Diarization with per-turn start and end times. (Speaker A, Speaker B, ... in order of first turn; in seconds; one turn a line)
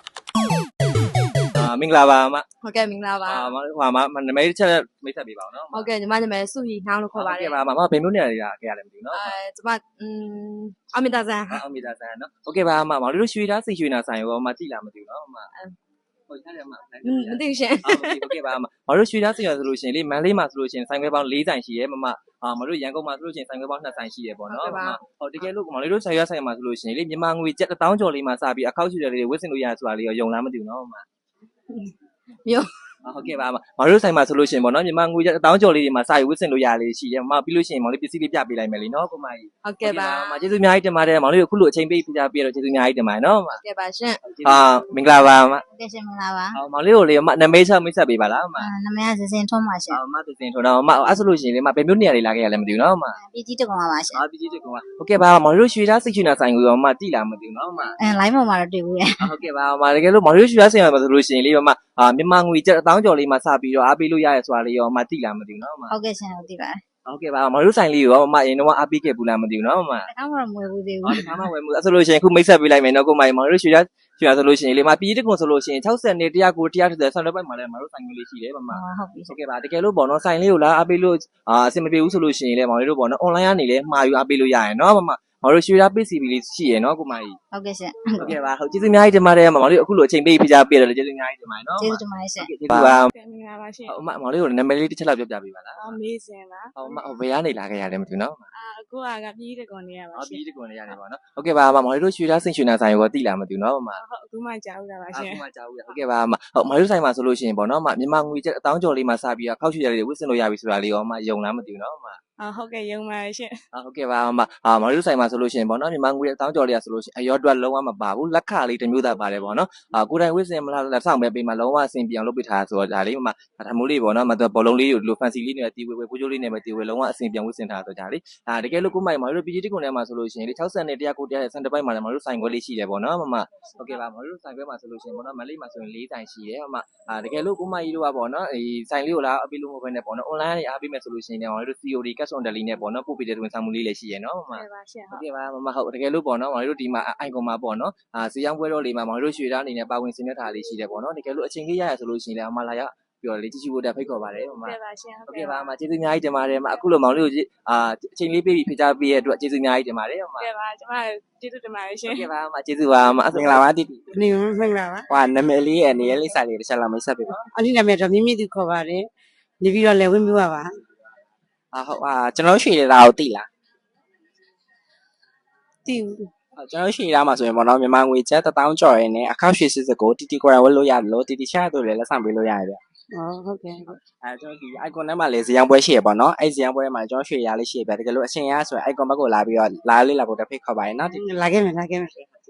Speaker A: 1.5-2.5
Speaker B: 2.6-3.5
Speaker A: 3.2-5.9
Speaker B: 5.7-7.6
Speaker A: 7.1-9.3
Speaker B: 9.1-11.6
Speaker A: 11.5-15.5
Speaker A: 16.3-31.0
Speaker B: 17.0-18.4
Speaker B: 24.5-25.0
Speaker A: 33.0-43.6
Speaker B: 39.6-40.4
Speaker B: 43.6-44.6
Speaker A: 44.4-45.6
Speaker C: 45.7-46.6
Speaker A: 46.5-48.7
Speaker C: 48.6-50.0
Speaker A: 49.9-53.2
Speaker C: 53.1-54.2
Speaker A: 54.1-58.0
Speaker C: 58.0-59.3
Speaker A: 59.2-65.9
Speaker C: 65.9-66.8
Speaker A: 67.1-70.1
Speaker C: 70.1-71.5
Speaker A: 71.0-87.4
Speaker C: 78.7-79.3
Speaker C: 87.5-88.3
Speaker A: 88.2-93.1
Speaker C: 91.8-92.5
Speaker D: 92.7-92.9
Speaker E: 93.1-93.9
Speaker A: 93.9-95.9
Speaker E: 95.8-96.7
Speaker A: 96.8-98.4
Speaker E: 98.5-100.4
Speaker A: 100.1-104.0
Speaker E: 104.0-105.4
Speaker A: 105.1-112.2
Speaker E: 112.4-113.5
Speaker A: 113.7-154.8
Speaker E: 144.5-145.2
Speaker E: 154.6-155.7
Speaker A: 155.3-160.5
Speaker E: 160.4-162.3
Speaker A: 162.0-163.6
Speaker D: 163.3-164.1
Speaker F: 164.1-165.1
Speaker D: 165.1-167.4
Speaker F: 167.5-169.1
Speaker F: 169.6-170.7
Speaker D: 171.7-173.5
Speaker F: 175.8-176.3
Speaker D: 176.6-182.8
Speaker F: 183.1-184.0
Speaker D: 183.8-191.2
Speaker F: 191.1-192.4